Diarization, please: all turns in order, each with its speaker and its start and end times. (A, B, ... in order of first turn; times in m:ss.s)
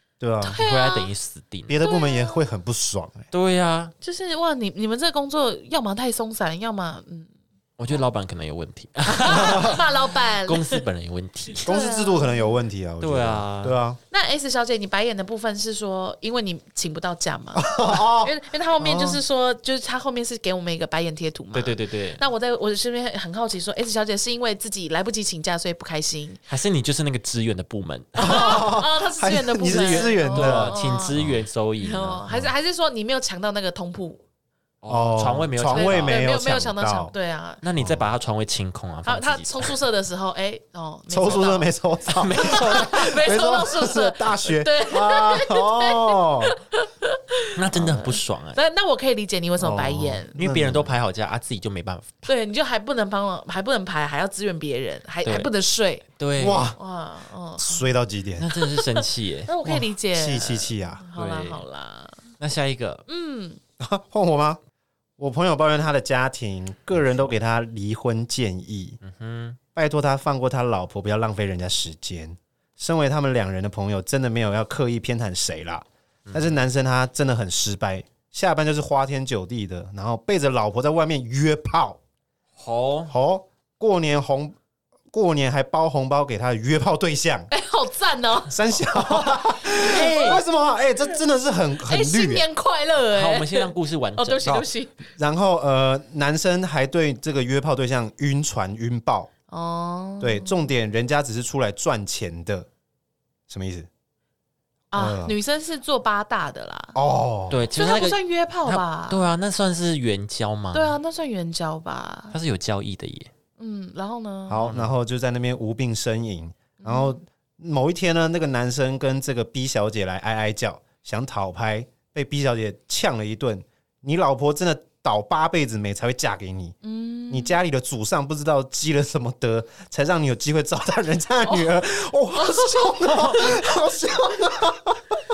0:00.2-0:00.6 A
0:00.4-0:01.1 B
0:00.6-0:01.8 C
0:01.7-0:03.3 A
0:01.8-0:02.4 B
0:03.3-0:03.9 C
0:04.0-0:07.3 B
0:07.8-0:11.7 C
0:09.0-0:10.8 B
0:09.3-0:09.8 A
0:11.6-0:12.5 B
0:11.6-0:14.0 A
0:13.0-0:13.8 C
0:14.1-0:26.4 B
0:17.6-0:19.2 A
0:21.5-0:22.2 C
0:26.5-0:28.7 C
0:28.2-0:31.2 B
0:28.2-0:31.4 A
0:29.7-0:32.2 C
0:31.8-0:34.2 B
0:34.8-0:36.3 C
0:34.9-0:37.1 A
0:35.7-0:37.6 B
0:37.6-0:39.8 C
0:39.0-0:41.7 B
0:41.1-0:46.5 A
0:42.1-0:43.2 C
0:42.4-0:50.4 B
0:47.6-0:48.6 C
0:49.6-0:50.9 A
0:50.4-0:52.2 C
0:52.2-0:56.0 B
0:55.2-0:55.5 C
0:56.2-0:56.7 C
0:56.4-0:56.8 A
0:56.8-0:57.8 B
0:57.6-0:58.5 A
0:58.4-0:59.5 C
0:59.5-1:02.2 B
0:59.6-1:01.0 A
1:01.1-1:01.6 C
1:02.4-1:03.0 C
1:03.1-1:03.6 B
1:03.8-1:04.6 A
1:05.2-1:09.0 A
1:09.0-1:09.6 C
1:09.7-1:22.0 A
1:16.3-1:16.5 C
1:22.6-1:23.1 C
1:23.1-1:24.6 A
1:25.1-1:27.5 A
1:27.5-1:28.5 B
1:28.5-1:32.4 A
1:29.1-1:30.4 C
1:31.9-1:34.9 B
1:33.1-1:34.7 C
1:35.2-1:39.3 A
1:39.5-1:40.6 B
1:40.2-1:42.7 A
1:43.5-1:43.9 A
1:44.9-1:47.0 B
1:44.9-1:45.3 A
1:46.9-1:47.6 A
1:47.5-1:51.0 C
1:47.7-1:49.3 B
1:50.7-1:52.3 B
1:52.3-1:53.3 C
1:53.6-1:54.7 B
1:54.5-2:06.8 A
1:54.6-1:54.9 C
1:56.8-1:57.2 B
2:06.8-2:07.5 B
2:07.3-2:15.2 A
2:12.4-2:13.7 B